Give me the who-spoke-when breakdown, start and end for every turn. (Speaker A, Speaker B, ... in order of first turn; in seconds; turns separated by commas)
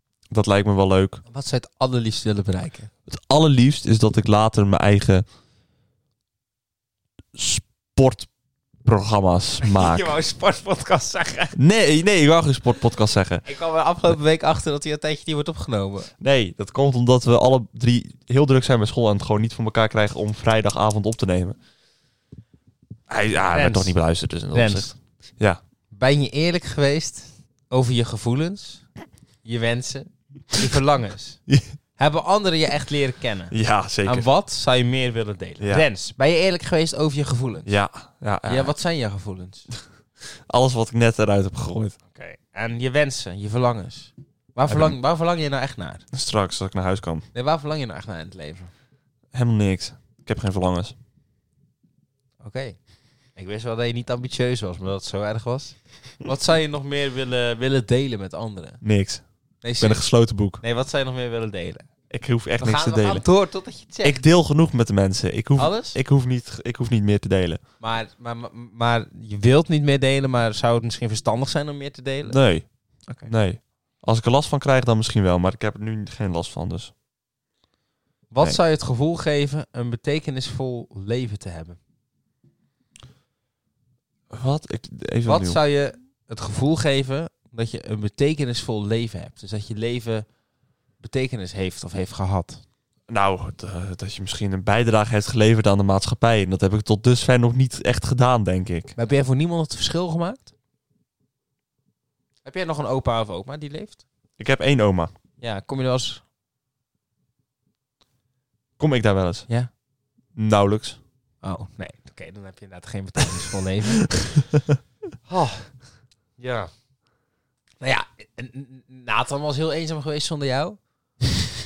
Speaker A: 0.3-1.2, Speaker B: 1.3-2.9, Speaker A: 3.1-5.2, Speaker A: 7.3-8.3, Speaker A: 8.8-10.1, Speaker B: 9.6-11.6, Speaker A: 11.6-13.4, Speaker B: 13.4-16.1, Speaker A: 16.2-21.6, Speaker A: 23.1-25.6, Speaker B: 23.4-23.9, Speaker B: 24.5-24.9, Speaker B: 25.9-28.9, Speaker B: 29.4-31.4, Speaker B: 32.0-33.5, Speaker A: 33.5-34.3, Speaker B: 34.0-37.7, Speaker A: 35.6-35.9, Speaker A: 37.7-38.7, Speaker B: 38.5-39.7, Speaker A: 40.5-42.0, Speaker B: 42.1-46.0, Speaker A: 44.7-45.0, Speaker A: 46.1-47.3, Speaker B: 47.3-48.7, Speaker A: 49.3-51.0, Speaker B: 52.4-52.8, Speaker B: 53.4-58.8, Speaker A: 58.8-59.2, Speaker B: 59.6-60.0, Speaker A: 59.8-60.6, Speaker B: 60.6-61.9, Speaker A: 62.1-63.3, Speaker B: 62.6-64.2, Speaker A: 64.0-67.6, Speaker B: 65.6-66.0, Speaker B: 67.8-72.4, Speaker A: 72.3-72.7, Speaker A: 73.3-76.9, Speaker B: 78.3-81.8, Speaker A: 84.3-85.6, Speaker B: 85.3-90.3, Speaker B: 91.0-92.6, Speaker A: 93.1-98.9, Speaker B: 99.0-100.5, Speaker B: 102.4-104.0, Speaker A: 104.4-105.1, Speaker B: 105.4-106.2, Speaker A: 108.8-109.5, Speaker A: 110.4-111.0, Speaker B: 111.4-114.1, Speaker A: 114.4-114.8, Speaker B: 115.3-115.7, Speaker B: 116.4-116.7, Speaker B: 117.8-120.8